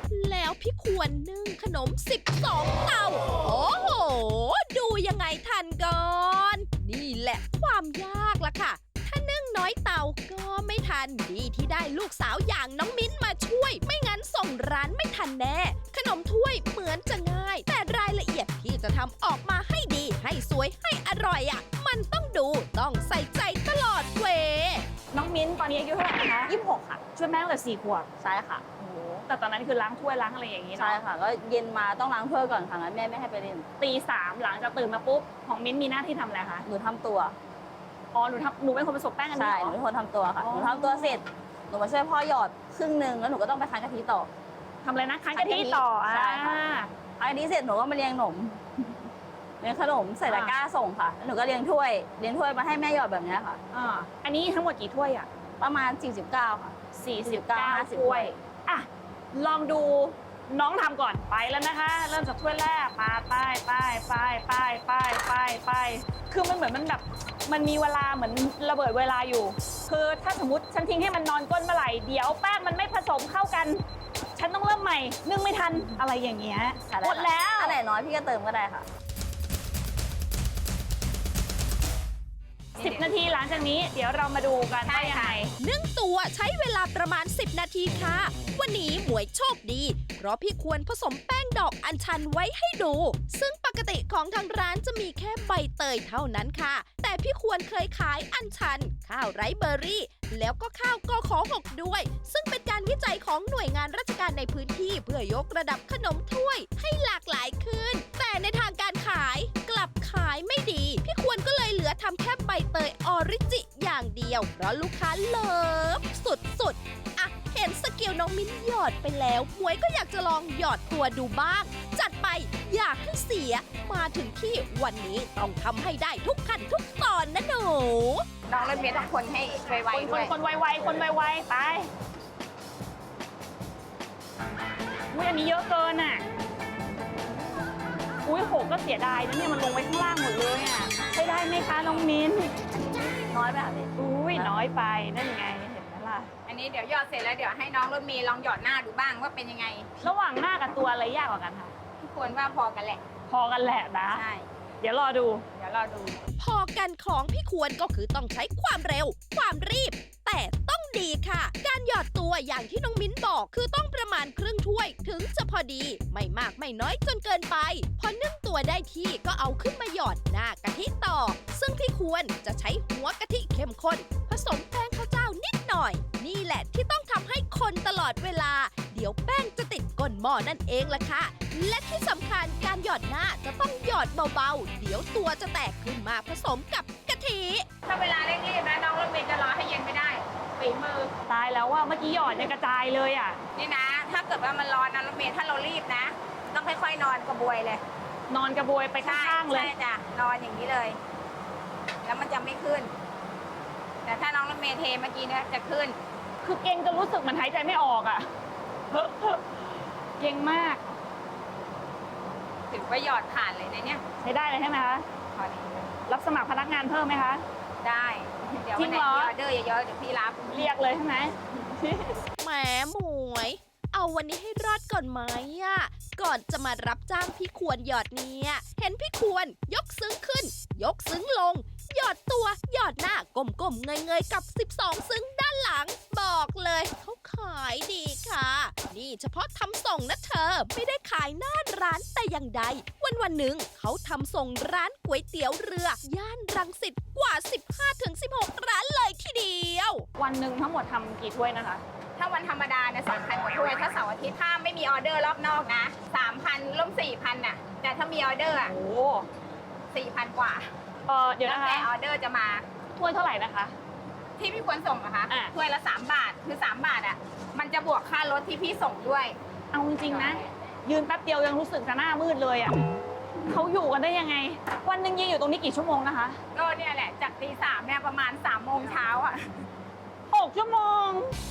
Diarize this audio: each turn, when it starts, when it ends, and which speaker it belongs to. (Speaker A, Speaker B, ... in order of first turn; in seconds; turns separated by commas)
Speaker A: 0.1-24.9, Speaker B: 25.1-28.1, Speaker C: 26.5-26.9, Speaker C: 28.2-29.2, Speaker B: 29.2-31.0, Speaker C: 30.8-33.6, Speaker B: 33.8-36.6, Speaker C: 36.6-37.4, Speaker B: 38.1-39.8, Speaker C: 39.4-44.3, Speaker B: 40.4-41.2, Speaker B: 44.8-46.9, Speaker C: 45.3-46.6, Speaker C: 47.2-49.1, Speaker C: 49.6-53.6, Speaker B: 50.3-50.6, Speaker B: 53.7-55.3, Speaker C: 55.6-58.3, Speaker B: 56.9-73.8, Speaker B: 74.3-77.8, Speaker C: 76.9-78.8, Speaker D: 82.8-83.2, Speaker B: 82.8-85.5, Speaker D: 84.8-85.4, Speaker A: 85.6-128.2, Speaker D: 128.5-130.3, Speaker B: 129.9-131.9, Speaker B: 135.1-136.2, Speaker B: 138.2-142.6, Speaker C: 143.3-144.5, Speaker B: 144.0-146.3, Speaker D: 146.5-149.9, Speaker B: 150.0-151.7, Speaker D: 152.0-153.0, Speaker B: 153.3-154.2, Speaker D: 154.1-154.5, Speaker B: 154.8-155.4, Speaker D: 155.5-156.2, Speaker A: 156.4-187.7, Speaker D: 187.8-191.1, Speaker B: 191.3-193.4, Speaker D: 193.6-197.8, Speaker B: 198.3-199.7, Speaker D: 199.0-201.0, Speaker D: 202.0-202.9, Speaker D: 204.0-206.0, Speaker B: 206.4-208.3, Speaker B: 208.9-209.6, Speaker B: 210.2-210.8, Speaker D: 212.7-214.0, Speaker B: 214.2-215.1, Speaker D: 215.3-215.9, Speaker B: 216.1-217.4, Speaker D: 217.8-220.7, Speaker B: 218.8-219.3, Speaker B: 220.5-222.2, Speaker A: 222.4-250.1, Speaker B: 250.2-251.8, Speaker D: 252.2-258.7, Speaker B: 258.6-259.3, Speaker D: 259.9-260.7, Speaker B: 261.1-261.9, Speaker D: 261.4-262.6, Speaker B: 262.9-263.7, Speaker D: 264.4-269.4, Speaker B: 269.7-272.8, Speaker B: 273.5-276.4, Speaker D: 276.5-279.6, Speaker B: 280.3-281.3